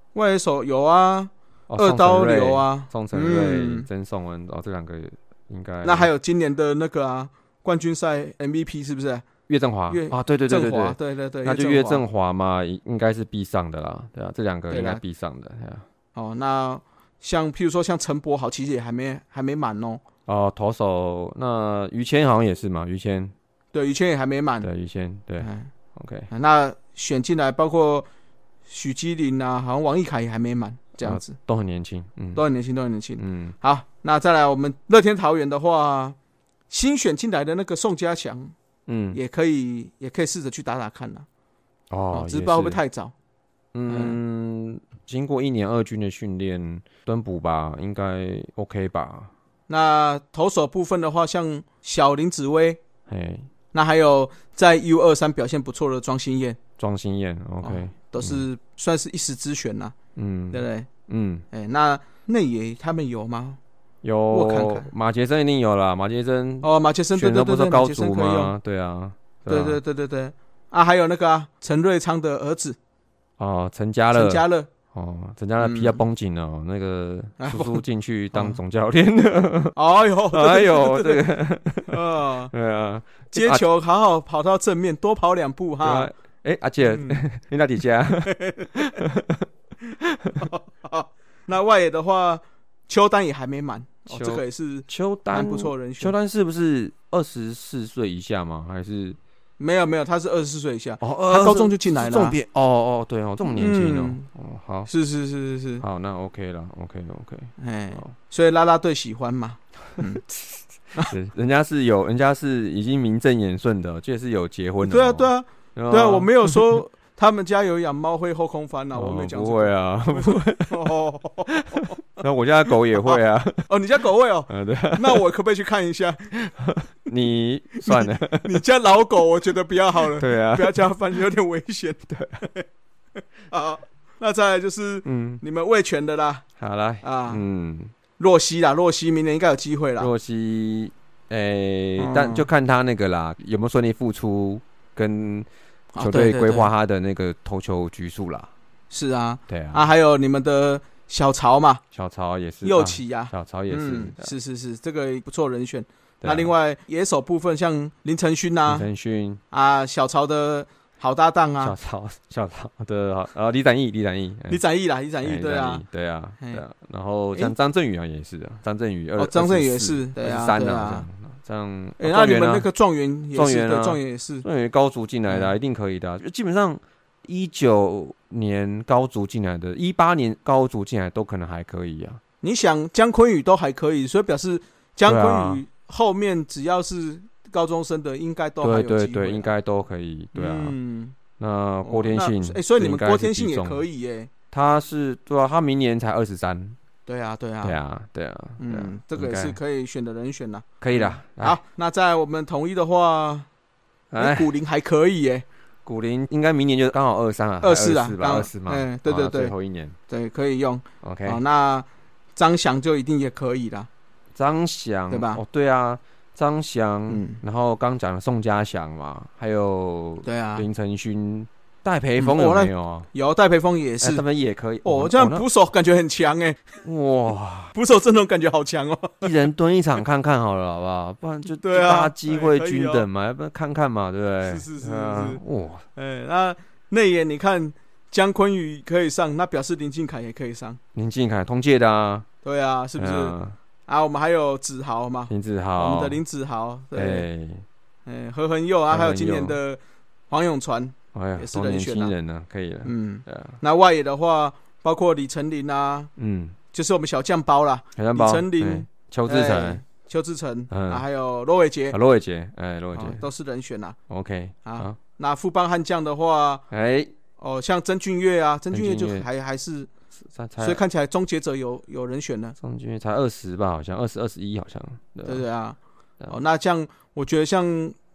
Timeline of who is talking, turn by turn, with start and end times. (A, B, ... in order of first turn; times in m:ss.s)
0:00.2-0:03.9 A
0:01.7-0:06.1 B
0:05.8-0:09.3 A
0:09.5-0:15.8 B
0:09.9-0:12.0 A
0:14.7-0:15.0 A
0:16.2-0:20.0 A
0:20.3-0:23.3 B
0:23.7-0:24.7 A
0:24.6-0:26.3 B
0:25.4-0:25.7 A
0:26.3-0:28.1 A
0:28.7-0:31.4 A
0:31.0-0:32.4 B
0:32.4-0:36.2 A
0:33.2-0:33.6 B
0:36.7-0:38.5 A
0:38.9-0:39.2 B
0:39.1-0:41.2 A
0:41.9-0:42.8 B
0:42.1-0:43.1 A
0:43.7-0:49.3 B
0:43.9-0:44.2 A
0:49.7-0:52.8 A
0:53.1-0:53.5 B
0:53.7-0:56.6 A
0:56.8-0:58.4 B
0:57.6-0:59.9 A
1:00.2-1:01.4 B
1:00.5-1:00.9 A
1:01.5-1:03.6 A
1:04.0-1:09.8 B
1:04.3-1:04.9 A
1:06.6-1:08.5 A
1:09.5-1:12.8 A
1:13.4-1:19.8 B
1:14.1-1:14.7 A
1:15.6-1:16.0 A
1:17.4-1:18.6 A
1:19.8-1:21.2 A
1:20.3-1:22.0 B
1:21.9-1:22.5 A
1:22.5-1:23.6 B
1:23.3-1:26.1 A
1:25.8-1:29.5 B
1:26.9-1:27.2 A
1:28.3-1:28.8 A
1:30.0-1:30.5 B
1:30.4-1:36.1 A
1:34.1-1:39.2 B
1:39.6-1:42.4 A
1:41.0-1:44.9 B
1:43.5-1:44.2 A
1:44.9-1:45.8 A
1:45.8-1:48.1 B
1:47.6-1:50.2 A
1:50.0-1:56.8 B
1:54.8-2:02.0 A
1:58.9-2:00.9 B
2:01.5-2:03.7 B
2:03.0-2:06.3 A
2:04.5-2:05.2 B
2:06.4-2:08.6 B
2:07.8-2:12.6 A
2:10.2-2:10.9 B
2:12.1-2:12.4 B
2:13.5-2:16.4 A
2:15.0-2:15.4 B
2:16.6-2:17.9 B
2:17.0-2:17.4 A
2:18.2-2:20.1 A
2:20.0-2:28.5 B
2:22.0-2:22.5 A
2:25.9-2:26.7 A
2:28.9-2:31.8 A
2:29.5-2:29.9 B
2:31.9-2:34.3 B
2:32.6-2:38.9 A
2:36.2-2:36.5 B
2:38.7-2:39.4 B
2:39.5-2:41.8 A
2:41.6-2:44.6 B
2:44.5-2:45.8 A
2:45.2-2:52.7 B
2:49.2-2:51.1 A
2:52.0-2:54.4 A
2:53.3-3:02.2 B
3:02.4-3:09.5 A
3:05.1-3:05.6 B
3:08.6-3:10.8 B
3:10.3-3:11.2 A
3:11.4-3:13.8 B
3:11.8-3:14.3 A
3:14.5-3:16.8 B
3:17.1-3:17.8 A
3:17.6-3:19.6 B
3:18.6-3:23.5 A
3:20.8-3:21.6 B
3:24.1-3:24.5 B
3:24.2-3:25.4 A
3:25.8-3:30.0 B
3:27.6-3:29.5 A
3:30.1-3:33.9 A
3:31.0-3:31.4 B
3:34.4-3:43.1 B
3:35.1-3:35.4 A
3:37.1-3:37.4 A
3:40.2-3:40.7 A
3:42.2-3:44.2 A
3:44.0-3:45.4 B
3:44.8-3:46.6 A
3:46.8-3:47.8 B
3:47.8-3:49.3 A
3:49.2-3:55.8 B
3:51.6-3:53.1 A
3:54.4-3:55.4 A
3:56.0-4:00.8 A
4:01.0-4:02.3 B
4:02.4-4:03.4 A
4:03.0-4:03.6 B
4:03.9-4:07.3 A
4:05.3-4:06.2 B
4:06.9-4:07.6 B
4:08.1-4:12.1 A
4:08.9-4:09.6 B
4:11.1-4:13.6 B
4:12.8-4:16.1 A
4:16.2-4:16.6 B
4:16.7-4:22.0 A
4:18.0-4:19.8 B
4:20.7-4:21.0 B
4:21.9-4:23.2 B
4:22.9-4:24.0 A
4:24.1-4:25.0 B
4:24.6-4:26.6 A
4:26.7-4:27.1 B
4:27.4-4:29.9 A
4:28.7-4:29.2 B
4:30.2-4:30.8 B
4:30.6-4:32.6 A
4:32.6-4:35.4 B
4:35.2-4:35.8 A
4:36.3-4:38.0 A